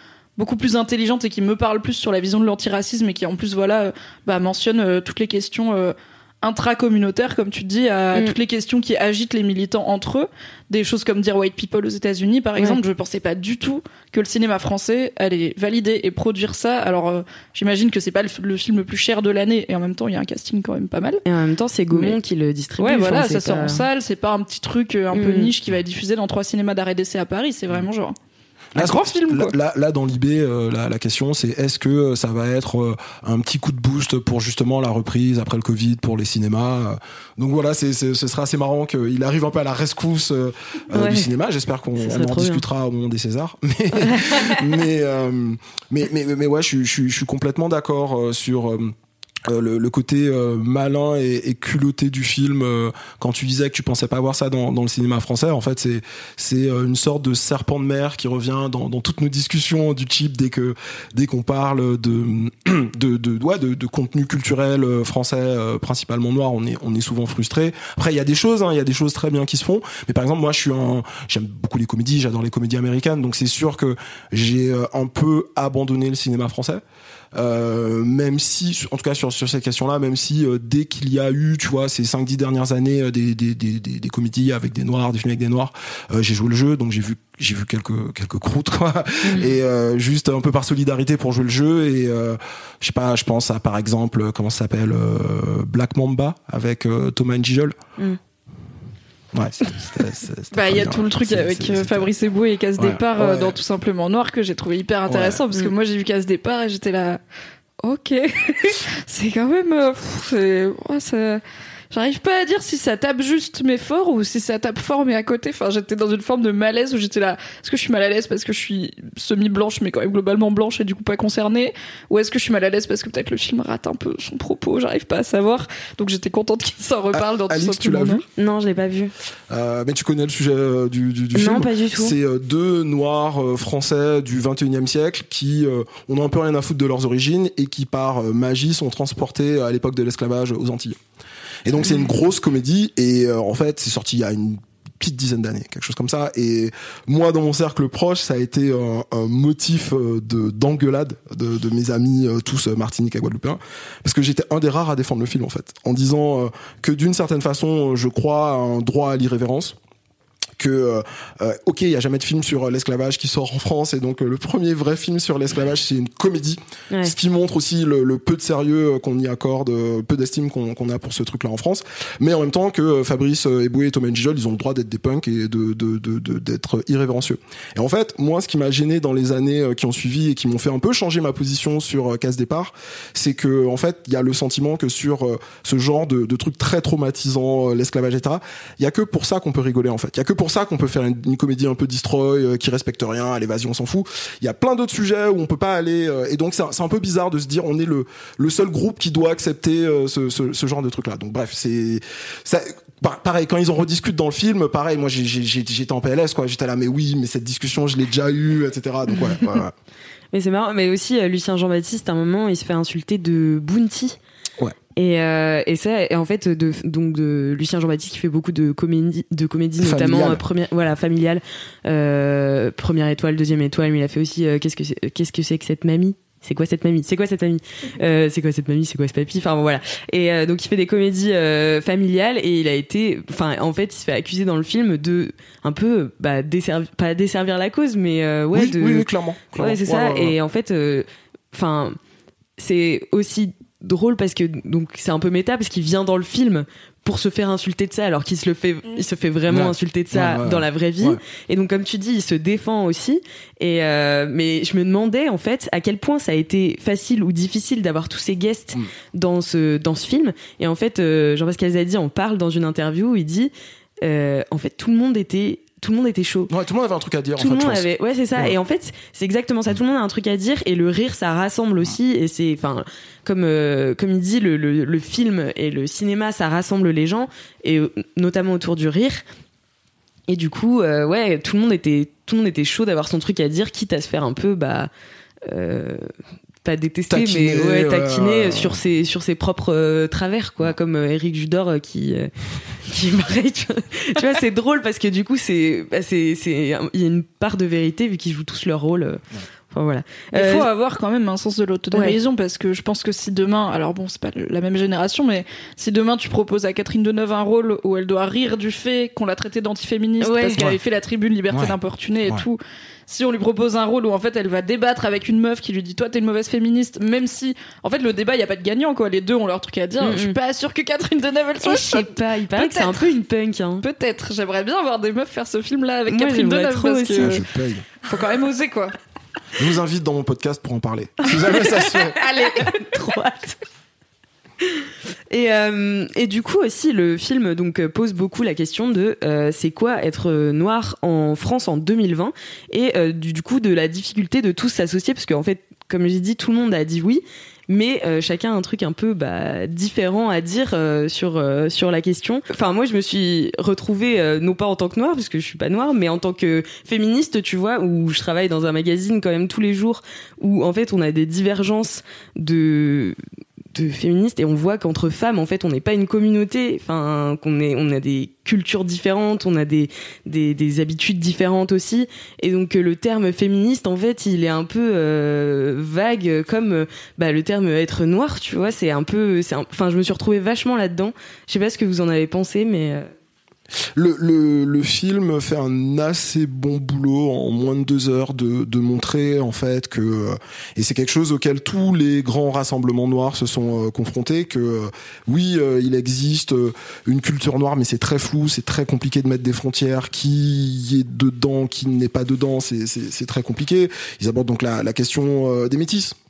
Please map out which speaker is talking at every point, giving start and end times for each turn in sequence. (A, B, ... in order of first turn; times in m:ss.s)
0:00.4-0:21.2 A
0:21.2-0:23.8 B
0:22.8-0:28.2 A
0:25.1-0:25.5 B
0:28.7-0:48.9 C
0:28.7-0:29.5 A
0:40.9-0:41.3 B
0:42.0-0:42.6 B
0:43.9-0:44.6 B
0:49.5-1:16.8 C
1:17.3-1:37.8 C
1:29.2-1:29.5 B
1:39.3-1:42.1 C
1:40.5-1:47.2 A
1:42.8-1:43.6 C
1:45.1-1:45.4 C
1:47.8-2:08.2 A
2:07.1-2:08.2 C
2:08.4-2:09.1 B
2:09.5-2:21.0 C
2:11.3-2:12.1 B
2:21.6-2:39.8 C
2:40.6-3:29.7 C
3:30.3-3:34.2 B
3:35.0-3:59.1 B
3:39.8-3:40.4 C
3:58.5-4:00.4 C
3:59.6-4:02.0 B
4:02.6-4:23.5 B
4:09.5-4:11.2 C
4:24.0-4:26.5 B
4:26.5-4:28.5 C
4:27.4-4:39.2 B
4:40.3-4:44.9 B
4:45.4-4:46.1 B
4:46.6-4:52.3 B
4:47.1-4:48.8 C
4:52.8-5:00.7 B
5:00.3-5:23.1 A
5:10.2-5:10.6 B
5:20.0-5:20.4 B
5:21.6-5:23.8 B
5:23.8-5:27.4 A
5:26.1-5:27.3 B
5:27.2-5:27.9 C
5:28.0-5:28.9 A
5:29.6-5:32.2 C
5:31.2-5:33.6 B
5:34.8-6:03.2 B
6:03.7-6:23.1 B
6:24.0-6:46.2 C